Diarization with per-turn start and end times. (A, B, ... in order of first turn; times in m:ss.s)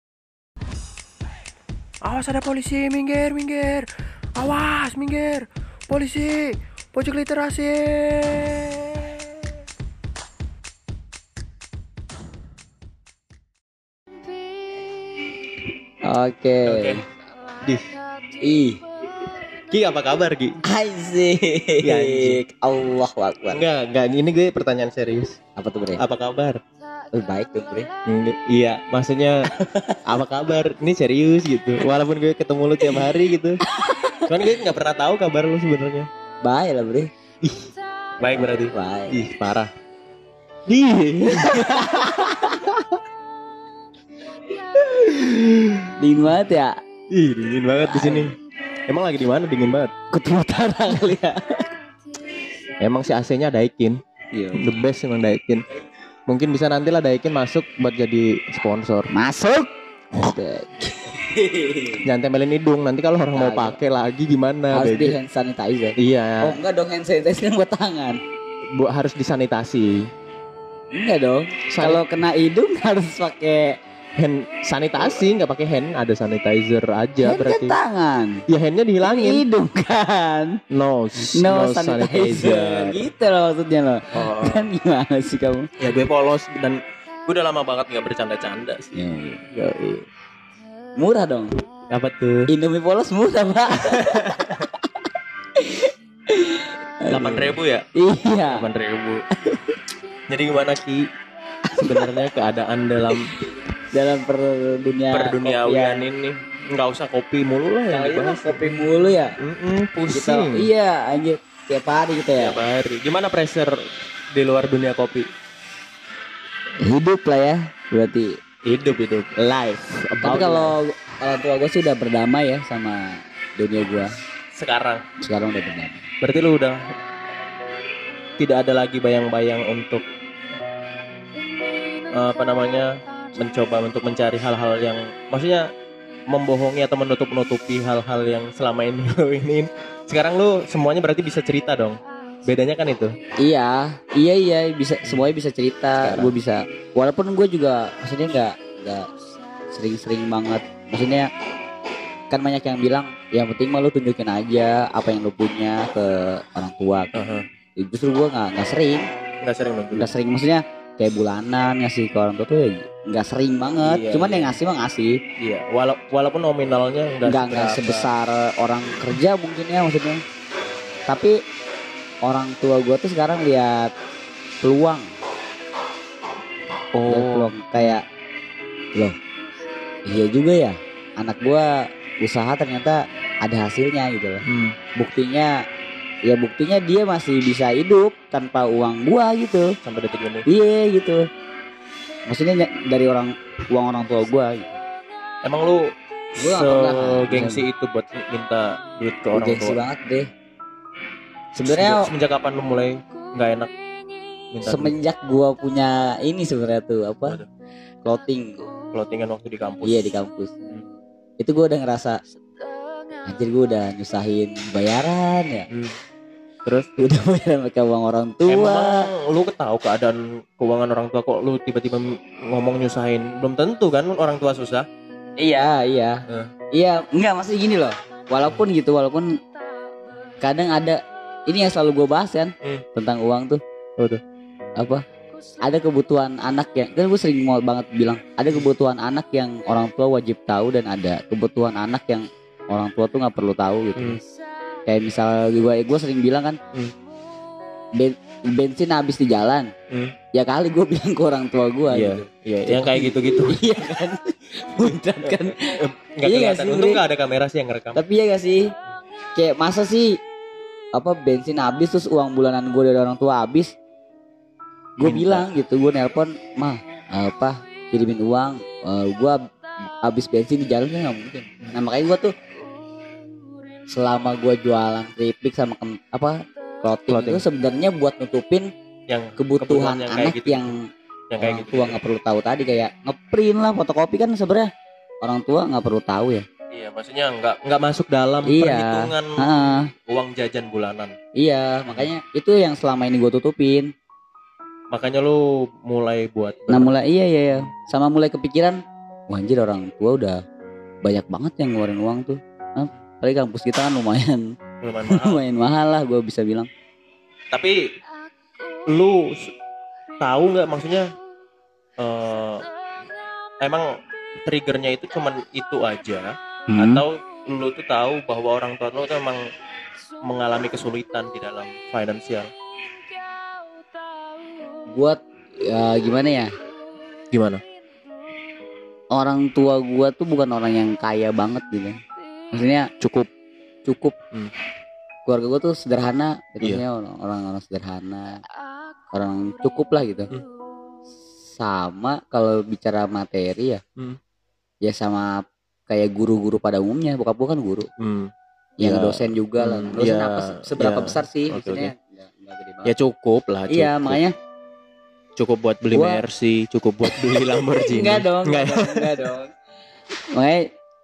0:02.0-0:09.4 A
0:16.0-0:17.0 B
0:16.6-0:17.0 C
0:17.6-0:17.9 C
0:18.4-0:18.8 B
0:19.7-0:20.6 C
0:20.6-0:23.6 B
0:21.8-0:22.4 C
0:23.5-0:25.4 C
0:25.6-0:26.0 B
0:26.0-0:26.6 C
0:27.1-0:27.9 B
0:28.1-0:29.5 C
0:29.6-0:30.0 B
0:30.0-0:33.6 C
0:33.6-0:34.3 B
0:34.2-0:36.1 C
0:36.4-0:37.1 B
0:38.2-0:39.7 C
0:38.7-0:39.2 B
0:40.7-0:42.9 C
0:41.3-0:42.1 B
0:44.8-0:46.3 C
0:46.0-0:46.8 B
0:47.1-0:48.4 C
0:47.9-0:48.3 B
0:48.9-0:49.9 C
0:50.1-0:51.6 B
0:52.8-0:54.0 C
0:54.3-0:54.8 B
0:54.5-0:55.6 C
0:56.3-0:59.1 C
0:59.1-1:02.0 B
1:02.0-1:05.2 C
1:03.3-1:03.8 B
1:04.7-1:08.2 B
1:06.0-1:06.6 C
1:08.7-1:10.0 C
1:10.9-1:13.8 B
1:11.7-1:12.0 C
1:14.2-1:17.8 C
1:17.2-1:18.4 B
1:18.5-1:19.4 C
1:19.0-1:20.6 B
1:20.7-1:23.0 C
1:21.2-1:25.7 B
1:24.1-1:24.7 C
1:25.8-1:28.9 C
1:28.9-1:29.5 B
1:29.5-1:30.0 C
1:31.0-1:31.6 B
1:31.9-1:32.5 C
1:32.5-1:38.7 B
1:33.8-1:34.7 C
1:37.1-1:37.8 C
1:38.5-1:39.2 C
1:39.4-1:39.8 B
1:40.3-1:41.0 C
1:41.7-1:42.1 B
1:41.8-1:43.3 C
1:43.9-1:46.0 B
1:45.1-1:48.7 C
1:47.9-1:49.4 B
1:49.4-1:50.7 C
1:50.1-1:52.6 B
1:52.3-1:53.8 C
1:54.3-1:55.3 C
1:56.8-1:58.4 B
1:58.6-1:59.3 C
1:59.4-2:04.1 B
2:00.1-2:00.8 C
2:04.5-2:05.0 C
2:05.2-2:06.1 B
2:06.2-2:06.8 C
2:08.4-2:10.0 C
2:12.1-2:15.6 C
2:16.3-2:23.1 C
2:23.4-2:29.1 B
2:26.0-2:26.4 C
2:29.7-2:31.3 B
2:32.3-2:37.1 B
2:37.1-2:37.4 C
2:37.8-2:39.1 B
2:39.4-2:40.1 C
2:39.9-2:45.2 B
2:43.8-2:44.6 C
2:45.4-2:48.1 C
2:47.2-2:50.2 B
2:51.1-2:51.4 B
2:52.2-2:53.9 B
2:54.6-2:55.1 B
2:56.9-2:58.0 C
2:57.1-2:58.0 B
3:00.0-3:04.4 B
3:04.4-3:04.8 C
3:04.9-3:05.6 B
3:06.2-3:09.7 B
3:09.8-3:10.4 C
3:10.5-3:11.3 B
3:12.3-3:14.8 B
3:15.4-3:15.8 C
3:16.4-3:17.6 B
3:16.4-3:19.8 C
3:19.3-3:20.3 B
3:21.6-3:22.1 B
3:21.6-3:23.7 C
3:24.5-3:24.9 C
3:24.6-3:27.4 B
3:28.0-3:28.7 B
3:28.9-3:30.0 C
3:29.8-3:30.7 B
3:31.4-3:32.2 B
3:33.2-3:35.7 B
3:36.6-3:36.9 C
3:37.0-3:39.1 B
3:38.5-3:44.8 C
3:45.4-3:49.3 B
3:50.4-3:53.6 B
3:55.6-4:04.2 B
4:04.9-4:06.6 B
4:08.0-4:09.7 B
4:09.9-4:10.1 C
4:10.3-4:17.0 B
4:11.9-4:13.7 C
4:14.8-4:18.0 C
4:17.9-4:18.7 B
4:19.4-4:20.2 B
4:20.9-4:23.7 B
4:25.0-4:29.4 B
4:25.0-4:25.4 C
4:30.0-4:32.3 B
4:33.9-4:38.7 B
4:37.1-4:37.4 C
4:39.1-4:40.7 C
4:39.4-4:40.8 B
4:41.3-4:42.0 C
4:41.4-4:44.7 B
4:45.2-4:46.4 B
4:46.7-4:51.1 C
4:48.4-4:49.9 B
4:51.4-4:53.9 B
4:54.9-4:57.0 C
4:56.7-5:00.4 B
5:01.0-5:04.5 B
5:04.8-5:05.4 C
5:05.1-5:06.7 B
5:08.9-5:09.5 C
5:10.2-5:11.1 C
5:12.0-5:12.6 C
5:13.6-5:13.9 C
5:14.4-5:19.4 C
5:16.7-5:17.0 B
5:20.2-5:22.5 C
5:24.9-5:26.5 B
5:27.3-5:27.6 C
5:29.1-5:32.0 B
5:32.5-5:32.9 B
5:33.0-5:33.3 C
5:33.8-5:34.2 B
5:35.2-5:38.4 B
5:39.1-5:40.3 B
5:41.5-5:43.8 B
5:44.8-5:47.9 B
5:48.0-5:51.9 C
5:48.8-5:52.9 B
5:52.8-5:54.2 C
5:53.7-5:54.3 B
5:55.4-5:59.2 C
5:55.9-5:56.2 B
5:57.8-5:59.5 B
6:00.3-6:00.7 B